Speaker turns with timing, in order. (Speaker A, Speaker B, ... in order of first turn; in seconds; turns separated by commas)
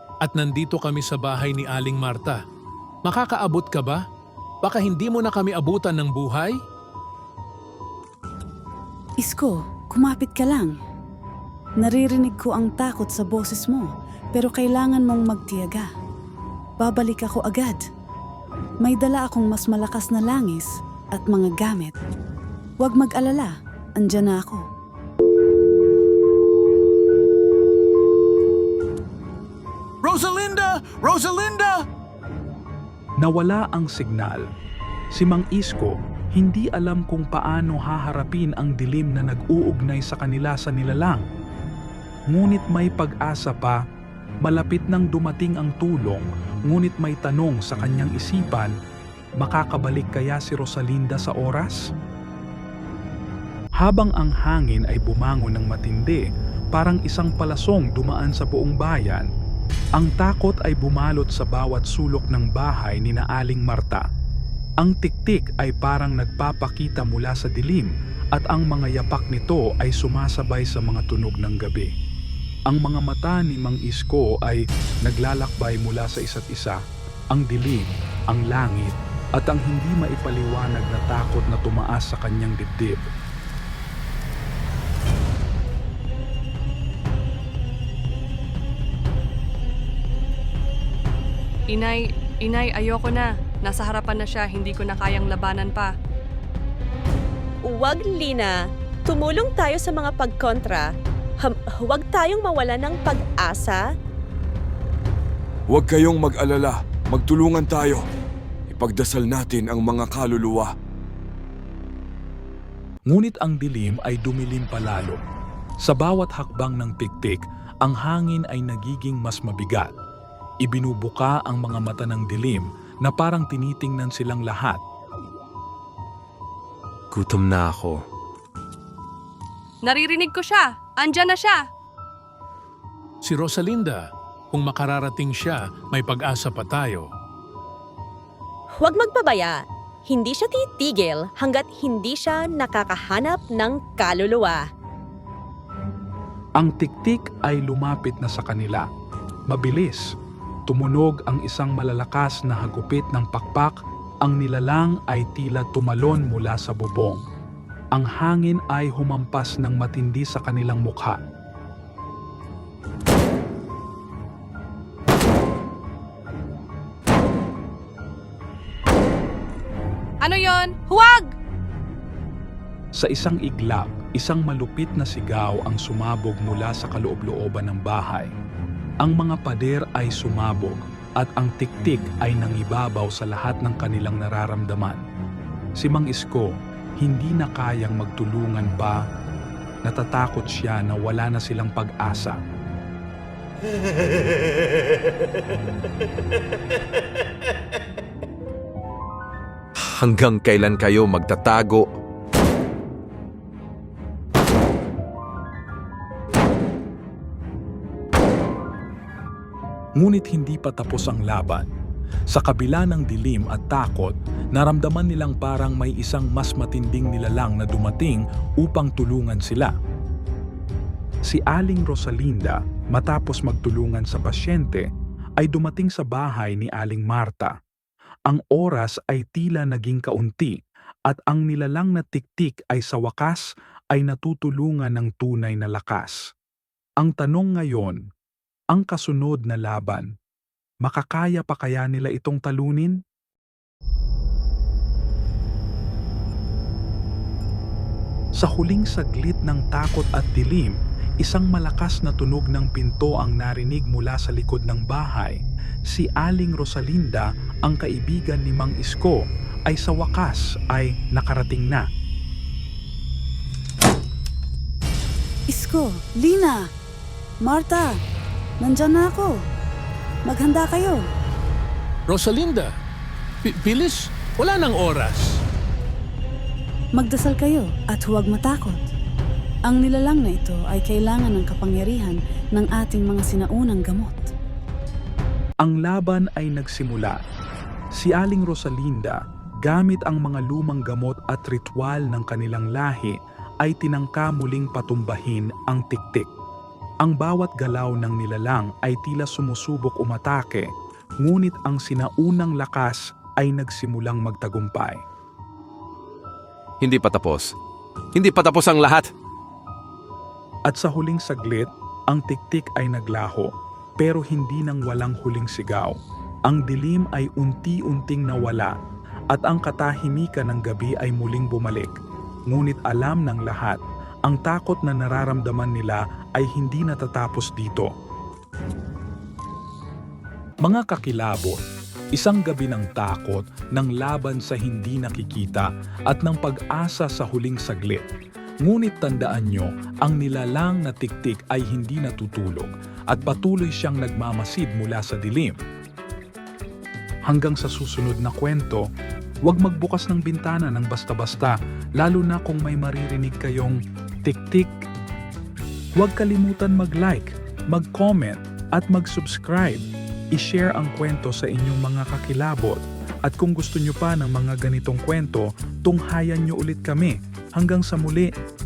Speaker A: 0.2-2.4, Speaker A: 3.0-4.0, Speaker A: 4.6-6.6, Speaker B: 9.2-10.8, Speaker B: 11.8-15.9, Speaker B: 16.8-17.8, Speaker B: 18.8-21.9, Speaker B: 22.8-24.6, Speaker A: 30.0-31.8, Speaker C: 33.2-34.5, Speaker C: 35.1-41.2, Speaker C: 42.3-43.8, Speaker C: 44.4-48.7, Speaker C: 49.4-51.8, Speaker C: 53.8-59.3, Speaker C: 60.0-64.0, Speaker C: 64.8-71.9, Speaker C: 72.7-76.8, Speaker C: 77.3-83.1, Speaker D: 91.7-95.9, Speaker E: 97.6-98.5, Speaker E: 99.1-103.8, Speaker F: 105.7-108.0, Speaker F: 108.7-110.7, Speaker C: 113.1-115.2, Speaker C: 115.8-119.9, Speaker C: 120.6-124.8, Speaker G: 127.1-128.0, Speaker D: 129.8-131.6, Speaker A: 133.2-134.0, Speaker A: 134.5-137.1, Speaker E: 138.8-144.7, Speaker C: 146.6-148.9, Speaker C: 149.5-150.0, Speaker C: 150.7-157.2, Speaker C: 157.9-161.2, Speaker D: 170.2-171.3, Speaker C: 173.0-178.3, Speaker C: 179.0-185.0, Speaker C: 185.8-189.0, Speaker C: 189.8-192.4, Speaker G: 199.8-201.9, Speaker C: 210.0-211.7, Speaker C: 212.3-219.7, Speaker C: 221.2-224.9, Speaker C: 225.4-227.6, Speaker C: 228.3-230.6, Speaker C: 231.1-236.3, Speaker C: 237.0-238.0, Speaker C: 238.7-240.1, Speaker C: 240.8-243.0, Speaker C: 248.4-261.9, Speaker B: 265.5-266.7, Speaker B: 267.4-268.0, Speaker B: 268.6-269.4, Speaker B: 270.3-271.1, Speaker A: 272.1-272.7, Speaker A: 273.4-275.4, Speaker B: 276.9-278.9, Speaker B: 279.7-284.3, Speaker C: 285.6-287.2, Speaker C: 287.9-296.3, Speaker C: 297.0-300.7, Speaker C: 301.2-305.0, Speaker G: 306.8-307.6, Speaker G: 308.1-309.1, Speaker C: 310.7-315.9, Speaker C: 316.5-318.7, Speaker C: 319.3-321.9, Speaker C: 322.5-327.9, Speaker C: 330.6-331.6, Speaker C: 332.1-338.1, Speaker C: 338.6-345.6, Speaker C: 347.3-348.8, Speaker C: 349.5-354.7, Speaker C: 356.0-368.3